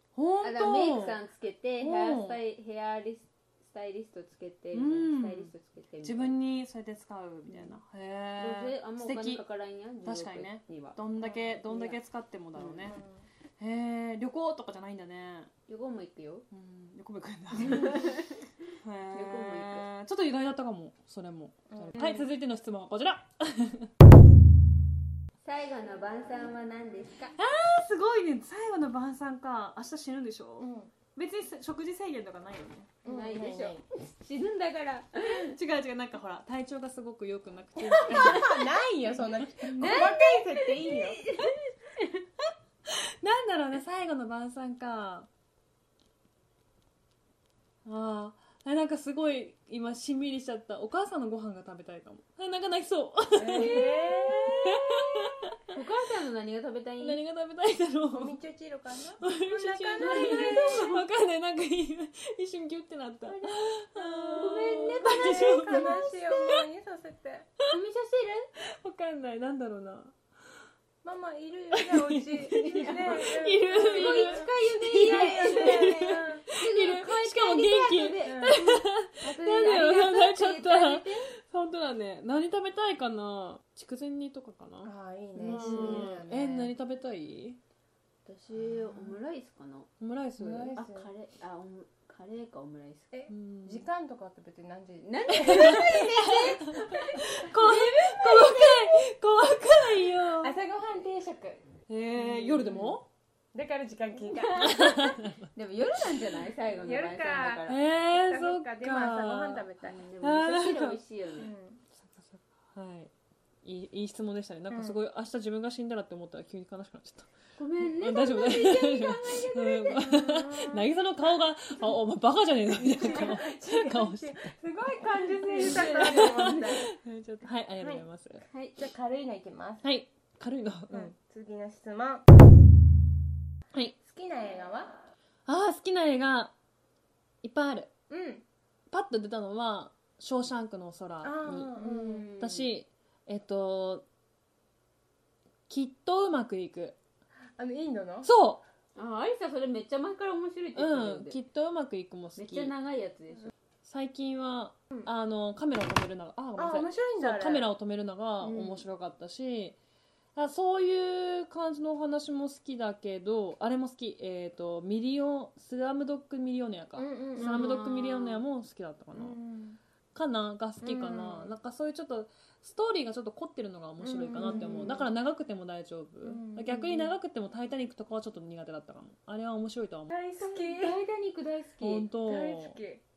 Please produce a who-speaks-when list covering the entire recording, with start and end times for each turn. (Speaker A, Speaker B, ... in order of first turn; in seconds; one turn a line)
Speaker A: 0.1-1.2
Speaker B: 0.4-6.4
Speaker A: 1.8-2.4
Speaker A: 4.7-5.5
Speaker A: 6.0-9.4
Speaker B: 7.5-7.7
Speaker B: 8.4-12.0
Speaker A: 10.0-13.0
Speaker B: 12.6-13.0
Speaker A: 13.6-15.5
Speaker B: 15.7-16.5
Speaker A: 16.5-18.2
Speaker B: 17.6-18.0
Speaker A: 18.8-23.9
Speaker B: 19.1-19.9
Speaker C: 21.8-22.2
Speaker B: 25.4-27.4
Speaker A: 27.4-33.0
Speaker C: 30.6-30.9
Speaker C: 33.0-33.8
Speaker B: 33.1-35.4
Speaker A: 35.2-38.7
Speaker C: 37.9-41.2
Speaker B: 39.7-41.5
Speaker A: 42.9-45.3
Speaker A: 47.9-53.9
Speaker C: 53.4-54.5
Speaker B: 53.5-54.3
Speaker A: 54.5-55.5
Speaker B: 55.7-57.2
Speaker A: 57.0-58.4
Speaker C: 58.1-60.9
Speaker A: 59.2-66.6
Speaker B: 60.0-61.0
Speaker B: 63.3-66.2
Speaker C: 65.0-67.5
Speaker B: 67.7-68.5
Speaker A: 68.6-70.1
Speaker C: 71.0-76.5
Speaker A: 71.7-84.9
Speaker B: 72.5-78.6
Speaker C: 78.3-78.7
Speaker B: 79.2-81.3
Speaker C: 84.8-86.7
Speaker B: 85.3-86.4
Speaker A: 85.5-87.6
Speaker B: 88.3-89.9
Speaker A: 90.0-90.8
Speaker C: 90.4-91.1
Speaker B: 90.8-93.1
Speaker C: 93.1-96.0
Speaker A: 93.3-93.9
Speaker B: 95.0-96.9
Speaker A: 95.3-100.5
Speaker C: 96.9-98.6
Speaker B: 97.6-98.7
Speaker C: 100.4-101.6
Speaker A: 101.9-103.1
Speaker B: 102.2-103.0
Speaker C: 103.5-104.8
Speaker B: 104.2-107.8
Speaker A: 104.6-105.4
Speaker C: 106.8-110.0
Speaker A: 107.7-109.7
Speaker B: 109.8-111.5
Speaker A: 110.2-111.0
Speaker C: 111.4-111.8
Speaker A: 112.0-113.1
Speaker A: 113.6-117.3
Speaker C: 114.7-115.0
Speaker B: 117.6-120.3
Speaker A: 117.9-124.5
Speaker C: 120.3-120.7
Speaker C: 122.8-126.8
Speaker A: 125.5-128.4
Speaker B: 125.6-126.7
Speaker B: 128.5-128.8
Speaker C: 128.8-129.8
Speaker A: 129.8-131.1
Speaker C: 130.9-132.2
Speaker C: 134.0-135.0
Speaker A: 135.5-136.5
Speaker A: 137.4-137.9
Speaker C: 138.1-138.4
Speaker A: 138.9-141.8
Speaker C: 141.2-142.3
Speaker B: 141.8-142.7
Speaker A: 142.4-144.1
Speaker A: 145.7-147.0
Speaker C: 147.6-148.3
Speaker A: 148.2-148.6
Speaker B: 148.9-151.4
Speaker A: 150.8-152.7
Speaker B: 152.4-153.5
Speaker A: 153.8-159.8
Speaker C: 156.6-157.6
Speaker B: 158.4-158.8
Speaker A: 160.3-169.4
Speaker C: 167.0-167.5
Speaker B: 167.3-168.5
Speaker C: 169.2-169.8
Speaker A: 170.2-180.1
Speaker C: 170.8-171.5
Speaker C: 174.0-175.0
Speaker B: 174.4-175.0
Speaker C: 176.2-177.0
Speaker C: 180.1-181.0
Speaker B: 180.4-182.1
Speaker A: 181.8-182.8
Speaker C: 182.3-183.0